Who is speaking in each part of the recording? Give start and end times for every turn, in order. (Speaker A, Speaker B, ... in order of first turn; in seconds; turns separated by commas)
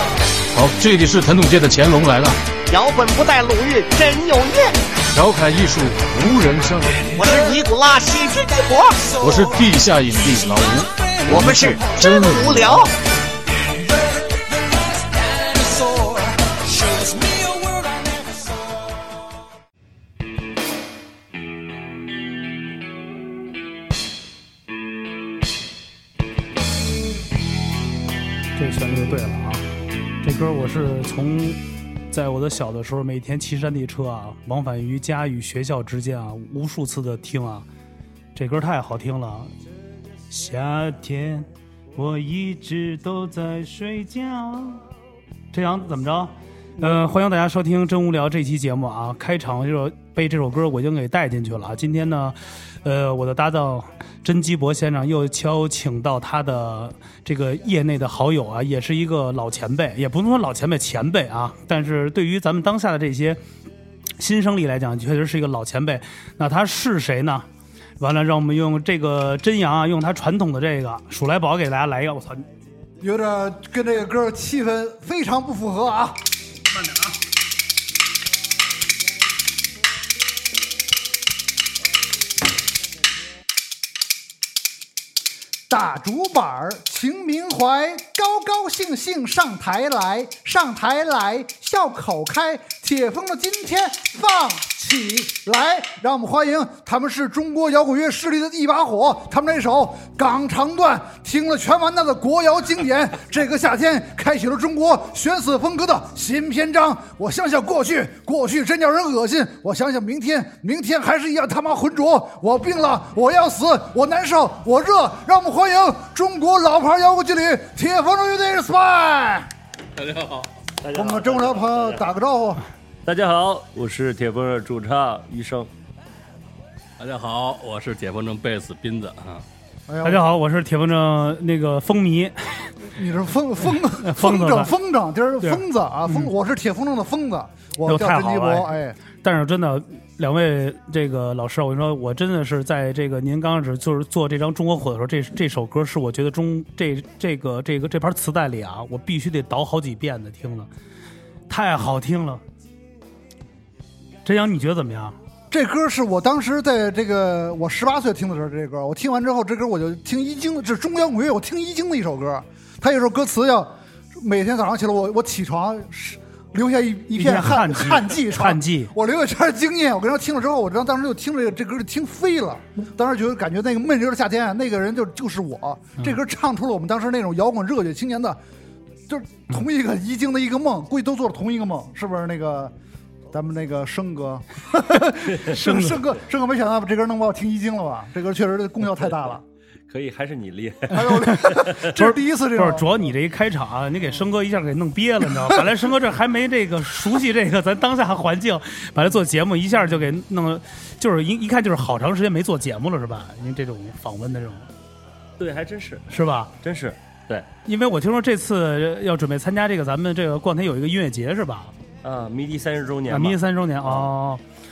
Speaker A: 0.5-2.4, Speaker B: 2.7-4.7, Speaker A: 5.1-7.3, Speaker B: 7.2-9.3, Speaker A: 9.2-12.8, Speaker B: 11.3-12.9, Speaker B: 15.2-18.3, Speaker C: 28.6-29.6, Speaker C: 30.2-37.6, Speaker C: 38.3-39.5, Speaker C: 40.3-44.8, Speaker C: 45.5-63.4, Speaker C: 64.2-67.5, Speaker C: 68.0-72.5, Speaker D: 73.0-76.2, Speaker C: 76.8-77.1, Speaker D: 85.7-119.5, Speaker E: 119.9-120.5, Speaker F: 120.8-122.1, Speaker D: 120.9-122.7, Speaker F: 123.0-125.7, Speaker E: 127.0-129.4, Speaker D: 129.9-130.2, Speaker C: 130.0-132.8, Speaker D: 132.9-139.0, Speaker C: 134.0-134.7, Speaker C: 135.4-136.3, Speaker C: 137.8-150.7, Speaker C: 151.5-152.4, Speaker C: 154.2-155.2, Speaker D: 155.5-178.4, Speaker C: 167.1-168.9, Speaker D: 179.1-182.7, Speaker D: 183.3-189.4, Speaker C: 185.4-186.0, Speaker F: 189.9-191.9, Speaker D: 190.9-192.9, Speaker C: 191.2-204.7, Speaker F: 205.4-207.5, Speaker C: 206.1-206.5, Speaker C: 207.7-211.7, Speaker F: 212.0-214.1, Speaker C: 213.1-214.4